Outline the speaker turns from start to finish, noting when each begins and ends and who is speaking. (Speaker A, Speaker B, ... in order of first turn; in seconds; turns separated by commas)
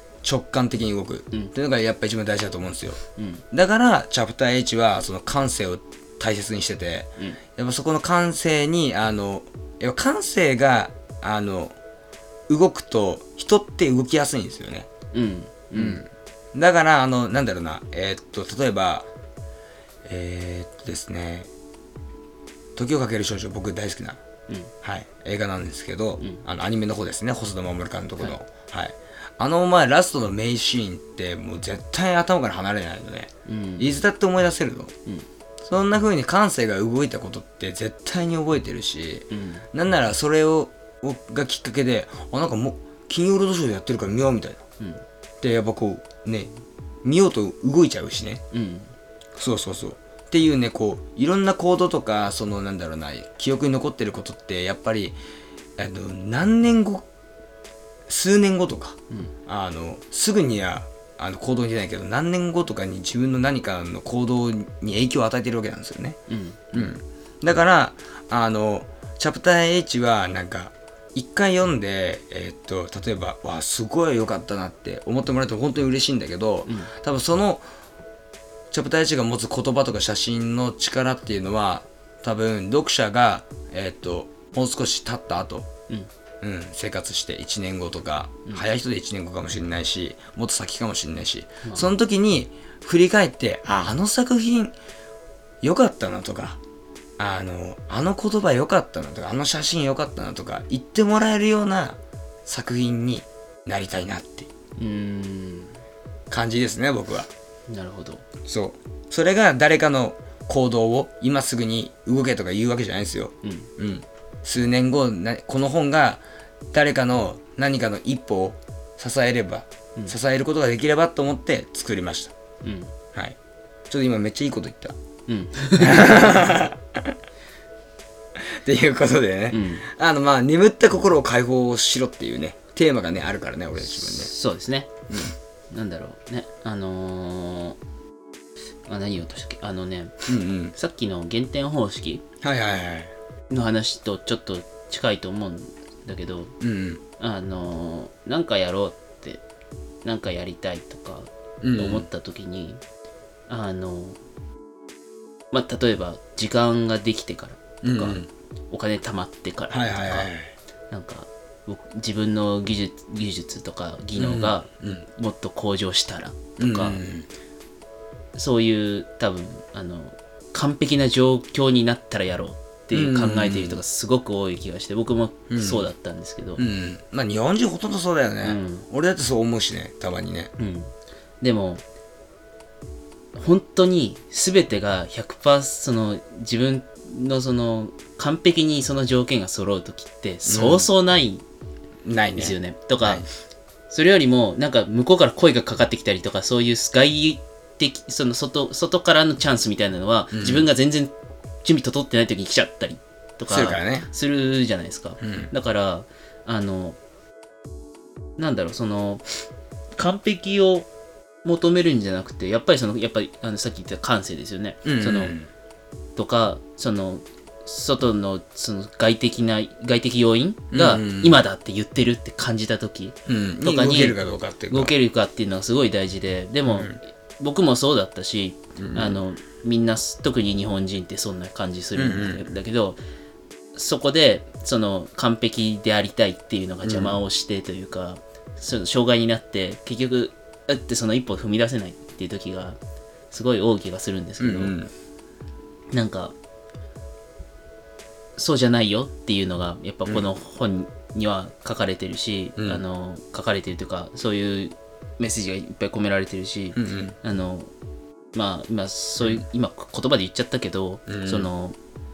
Speaker A: 0.2-3.0, Speaker B: 3.2-3.4, Speaker A: 3.5-11.8, Speaker A: 12.5-14.9, Speaker B: 15.1-16.1, Speaker A: 15.8-19.1, Speaker A: 20.1-21.5, Speaker A: 22.8-24.2, Speaker A: 24.8-34.9, Speaker B: 33.5-33.9, Speaker A: 35.6-44.6, Speaker B: 39.3-39.6, Speaker A: 45.4-46.5, Speaker A: 47.0-48.4, Speaker B: 48.5-48.9, Speaker A: 49.4-55.2, Speaker A: 55.8-57.1, Speaker A: 58.1-66.2, Speaker B: 66.3-66.9, Speaker A: 66.7-77.7, Speaker B: 76.7-76.9, Speaker A: 78.7-85.7, Speaker A: 86.4-94.8, Speaker B: 91.6-91.9, Speaker A: 95.6-96.6, Speaker A: 97.2-104.5, Speaker B: 104.8-105.8, Speaker A: 106.3-107.3, Speaker B: 107.7-108.2, Speaker A: 108.5-122.3, Speaker B: 113.4-113.7, Speaker B: 122.6-122.9, Speaker A: 123.9-125.0, Speaker B: 125.3-126.4, Speaker A: 125.8-127.1, Speaker A: 128.6-134.3, Speaker B: 129.5-129.9, Speaker B: 133.8-135.0, Speaker A: 135.1-135.3, Speaker B: 135.7-137.8, Speaker B: 138.9-142.2, Speaker A: 140.3-140.8, Speaker A: 142.4-143.1, Speaker B: 143.5-146.5, Speaker A: 146.6-147.0, Speaker B: 147.2-149.4, Speaker B: 150.0-152.8, Speaker A: 151.6-152.1, Speaker B: 153.5-154.2, Speaker B: 155.5-160.3, Speaker A: 157.8-158.3, Speaker A: 159.7-160.5, Speaker B: 160.9-167.0, Speaker A: 164.2-165.1, Speaker A: 166.6-167.3, Speaker B: 168.3-176.7, Speaker A: 172.9-173.8, Speaker A: 175.5-175.9, Speaker A: 176.6-180.5, Speaker B: 178.4-178.9, Speaker B: 180.6-181.8, Speaker B: 183.3-191.4, Speaker A: 190.5-190.9, Speaker A: 192.1-193.3, Speaker B: 192.4-193.3, Speaker B: 193.9-207.0, Speaker A: 200.3-200.7, Speaker A: 203.5-204.1, Speaker A: 205.2-205.5, Speaker B: 208.4-209.4, Speaker B: 210.0-210.9, Speaker B: 211.4-215.4, Speaker A: 214.8-215.5, Speaker B: 216.2-233.0, Speaker A: 220.7-221.4, Speaker A: 223.3-224.9, Speaker A: 226.7-227.0, Speaker A: 228.8-229.2, Speaker A: 231.9-232.5, Speaker B: 233.8-242.8, Speaker A: 236.8-237.2, Speaker B: 243.3-244.8, Speaker A: 244.4-244.9, Speaker B: 245.9-246.3, Speaker B: 248.4-257.7, Speaker A: 252.6-252.8, Speaker A: 256.8-257.2, Speaker B: 258.3-261.8, Speaker A: 259.2-259.4, Speaker A: 261.1-261.5